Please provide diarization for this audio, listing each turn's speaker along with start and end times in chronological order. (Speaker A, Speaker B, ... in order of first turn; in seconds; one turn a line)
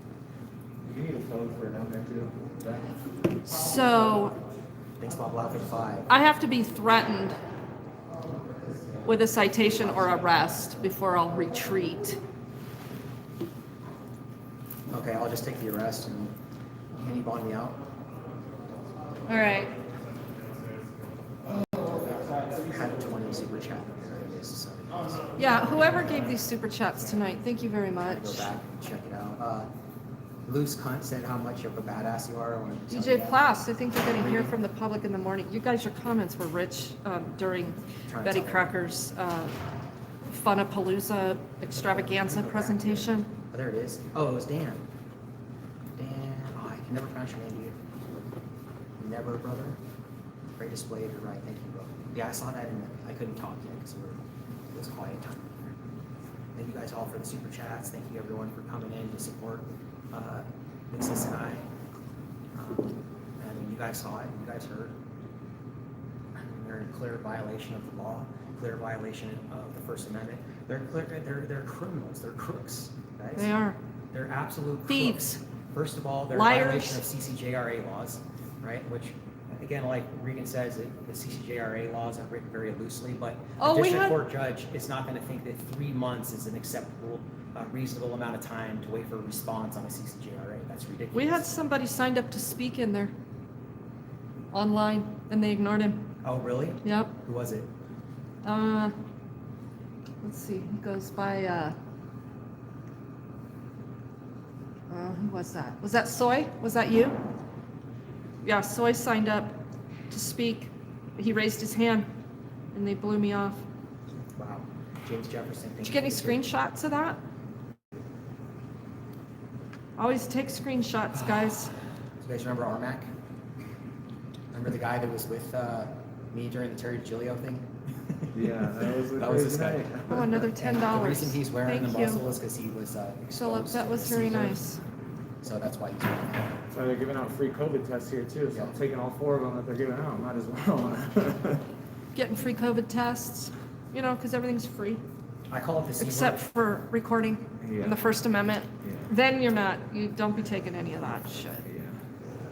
Speaker A: 0.8-2.9
Speaker B: 3.4-4.3
Speaker C: 5.0-6.1
Speaker B: 6.1-7.3
Speaker B: 9.0-12.2
Speaker C: 9.8-10.5
Speaker C: 14.9-16.4
Speaker C: 16.9-17.8
Speaker B: 19.3-19.7
Speaker C: 21.6-25.4
Speaker B: 25.4-28.4
Speaker C: 28.0-29.7
Speaker C: 30.4-33.4
Speaker B: 32.9-39.6
Speaker C: 34.1-34.5
Speaker C: 38.0-38.7
Speaker B: 40.3-43.3
Speaker C: 41.7-44.8
Speaker C: 46.0-47.8
Speaker C: 49.0-49.8
Speaker C: 50.6-55.7
Speaker C: 56.5-61.7
Speaker C: 62.5-64.9
Speaker C: 66.3-73.5
Speaker B: 73.4-73.8
Speaker C: 74.1-91.5
Speaker B: 74.9-75.4
Speaker B: 76.3-77.0
Speaker B: 83.6-84.2
Speaker B: 91.1-93.1
Speaker B: 94.5-96.1
Speaker C: 96.2-97.7
Speaker B: 96.8-97.1
Speaker B: 98.4-98.9
Speaker B: 100.2-101.7
Speaker B: 104.9-107.2
Speaker B: 108.4-109.6
Speaker B: 110.1-112.1
Speaker B: 112.7-113.6
Speaker C: 114.4-116.4
Speaker B: 115.8-117.2
Speaker B: 120.0-121.7
Speaker C: 122.2-123.1
Speaker C: 124.5-127.7
Speaker A: 128.3-130.4
Speaker C: 129.1-134.6
Speaker B: 130.1-132.2
Speaker B: 133.3-134.8
Speaker C: 135.4-136.6
Speaker A: 136.7-141.6
Speaker B: 142.1-145.0
Speaker C: 145.5-146.4
Speaker B: 146.0-151.6
Speaker A: 147.6-148.0
Speaker A: 148.8-149.1
Speaker A: 151.1-152.0